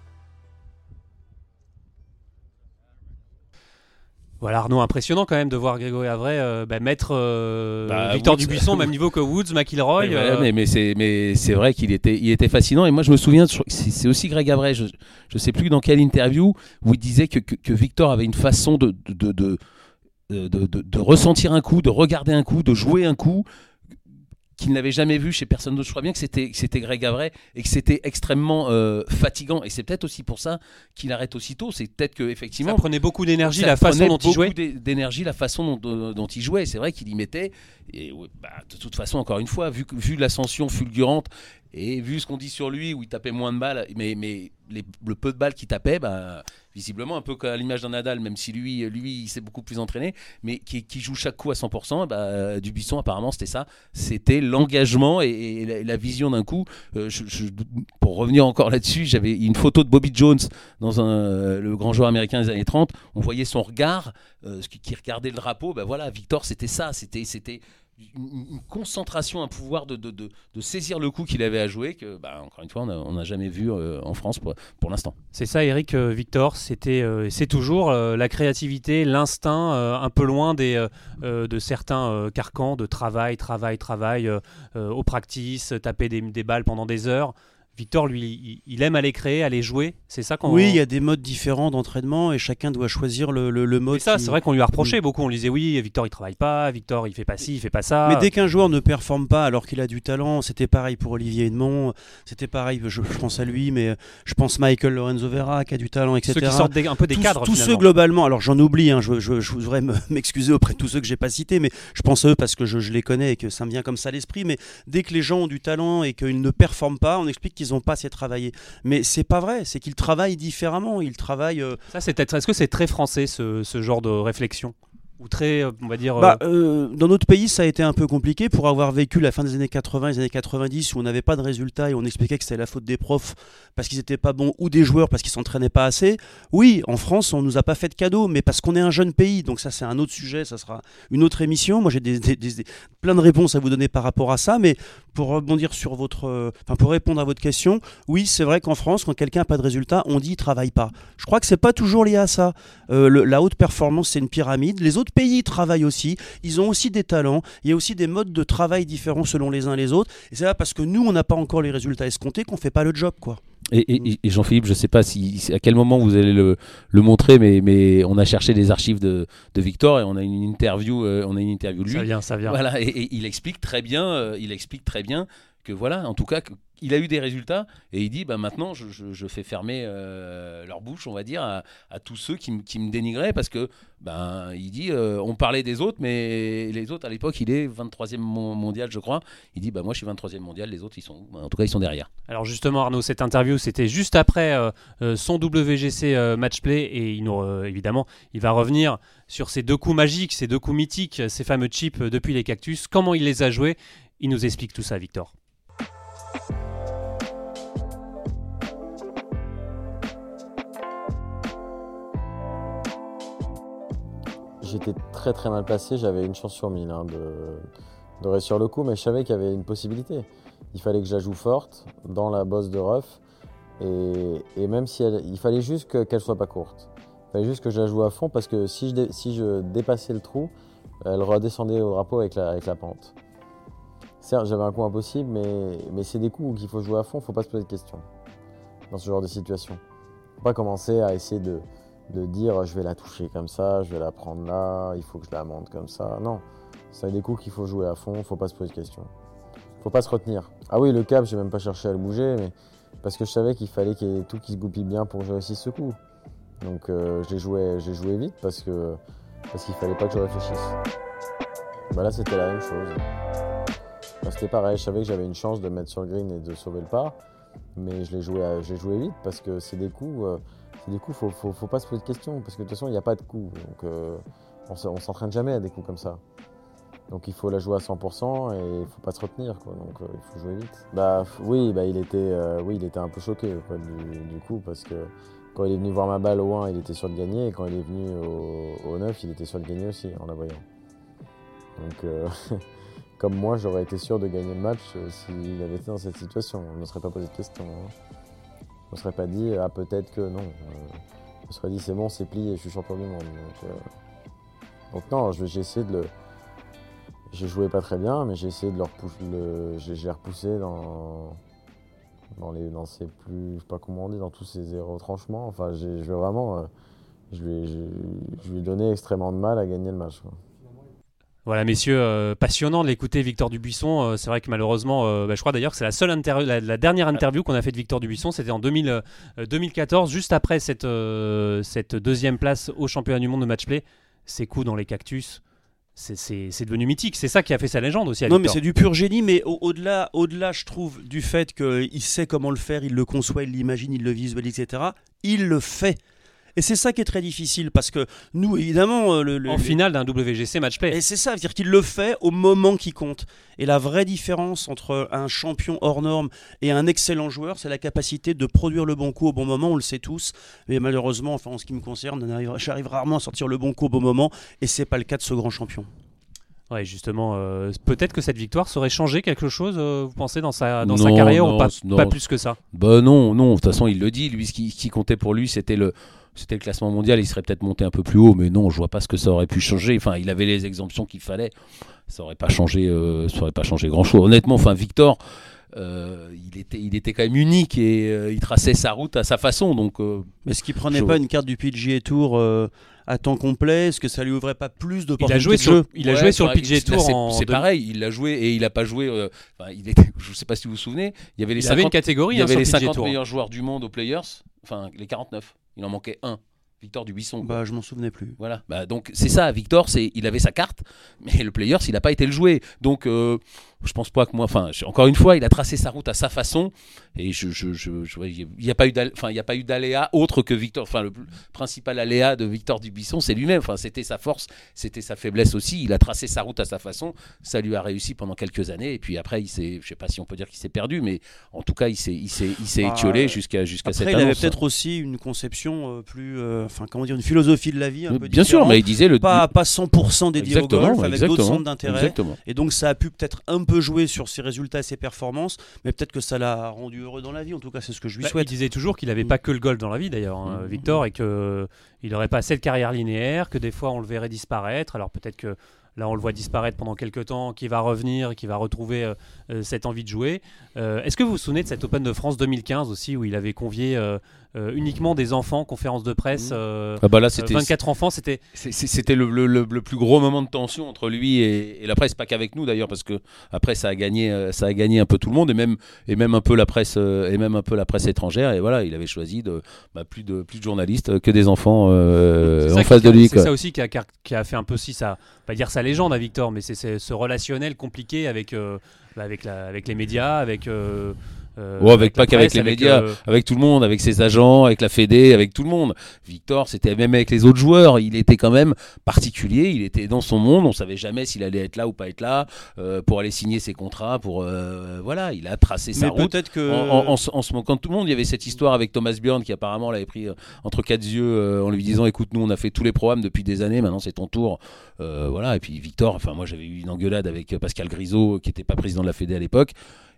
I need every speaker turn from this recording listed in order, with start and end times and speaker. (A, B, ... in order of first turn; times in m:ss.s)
0:04.4-0:10.5 A
0:07.9-0:08.9 B
0:10.0-0:19.6 B
0:20.3-0:23.4 B
0:24.6-0:32.9 B
0:32.6-0:34.5 A
0:33.4-1:15.2 B
1:15.3-1:30.8 A
1:30.4-1:35.0 C
1:33.9-1:38.3 A
1:38.0-2:01.8 C
1:46.3-1:47.8 A
2:01.9-2:06.4 A
2:06.2-2:43.4 C
2:43.7-3:12.1 B
2:51.9-2:52.6 A
3:12.3-3:25.3 A
3:34.6-3:37.6 D
3:38.2-3:43.2 D
3:43.8-3:53.1 D
3:54.2-3:58.1 D
3:58.9-3:59.8 D
4:00.4-4:09.1 D
4:09.8-4:16.0 D
4:16.6-4:19.0 D
4:19.5-4:20.8 D
4:21.9-4:23.0 D
4:24.2-4:27.2 D
4:27.8-4:36.2 D
4:37.1-4:50.6 D
4:51.8-4:52.6 D
4:53.2-4:57.9 D
4:58.9-5:03.8 D
5:04.9-5:06.1 D
5:07.3-5:11.4 D
5:12.4-5:16.7 D
5:17.3-5:20.4 D
5:21.5-5:35.4 A
5:36.0-5:38.6 A
5:38.3-5:46.0 C
5:46.6-5:49.8 C
5:49.5-5:51.0 A
5:50.9-6:05.9 C
6:06.7-6:12.6 A
6:10.8-6:12.2 B
6:12.7-6:21.5 B
6:22.1-6:25.2 B
6:25.7-6:30.3 B
6:30.5-6:35.9 C
6:30.9-6:31.2 B
6:35.2-6:37.6 A
6:36.0-6:47.6 B
6:41.6-6:43.2 A
6:47.4-6:48.4 C
6:48.4-7:14.6 B
7:12.8-7:28.5 C
7:18.1-7:19.5 B
7:20.4-7:22.4 B
7:28.2-7:48.4 A
7:30.5-7:30.8 B
7:46.3-7:47.7 B
7:48.5-8:03.5 B
8:02.5-8:13.2 A
8:11.8-8:39.7 B
8:26.0-8:27.2 C